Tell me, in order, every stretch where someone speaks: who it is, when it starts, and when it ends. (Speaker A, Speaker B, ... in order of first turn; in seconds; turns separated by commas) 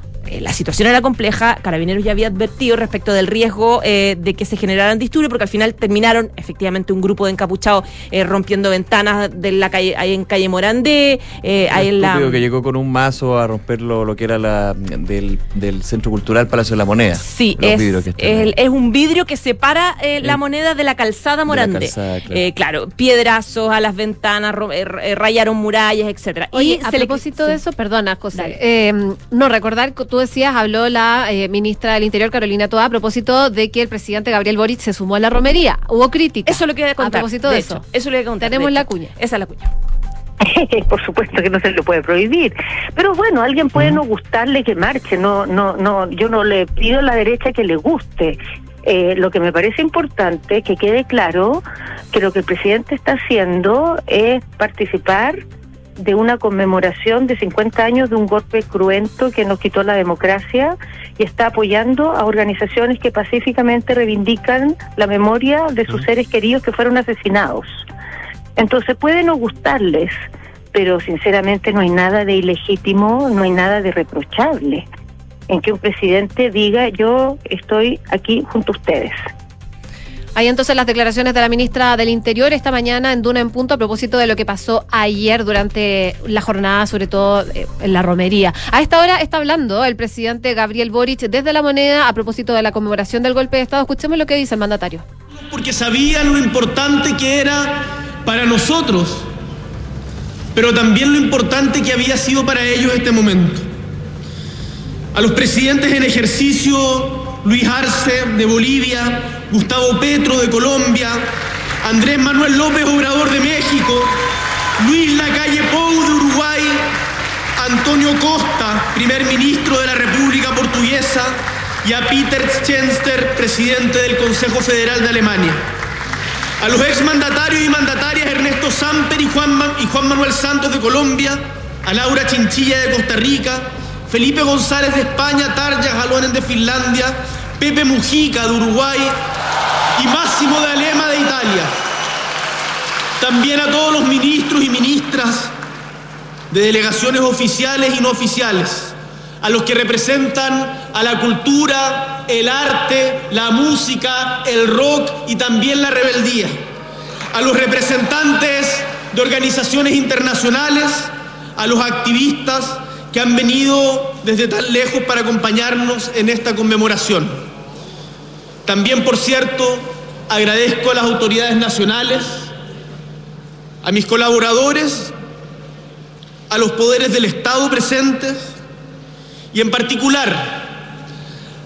Speaker A: 0.3-12.4, Speaker B: 11.7-18.5, Speaker A: 17.2-27.6, Speaker B: 21.5-22.4, Speaker C: 26.5-37.8, Speaker A: 36.5-39.7, Speaker C: 38.4-39.1, Speaker D: 40.4-55.4, Speaker D: 56.0-67.8, Speaker D: 68.6-70.1, Speaker D: 70.7-74.8, Speaker D: 75.5-79.2, Speaker C: 80.3-95.0, Speaker E: 95.3-99.3, Speaker E: 100.5-103.7, Speaker E: 105.1-111.3, Speaker E: 111.8-114.1, Speaker E: 114.8-116.9, Speaker E: 117.6-125.7, Speaker E: 126.6-139.2, Speaker E: 139.9-141.8, Speaker E: 143.2-145.5, Speaker E: 146.5-156.6, Speaker E: 157.3-167.4, Speaker E: 168.7-172.5, Speaker E: 173.8-175.1, Speaker E: 176.5-178.6, Speaker E: 179.5-180.7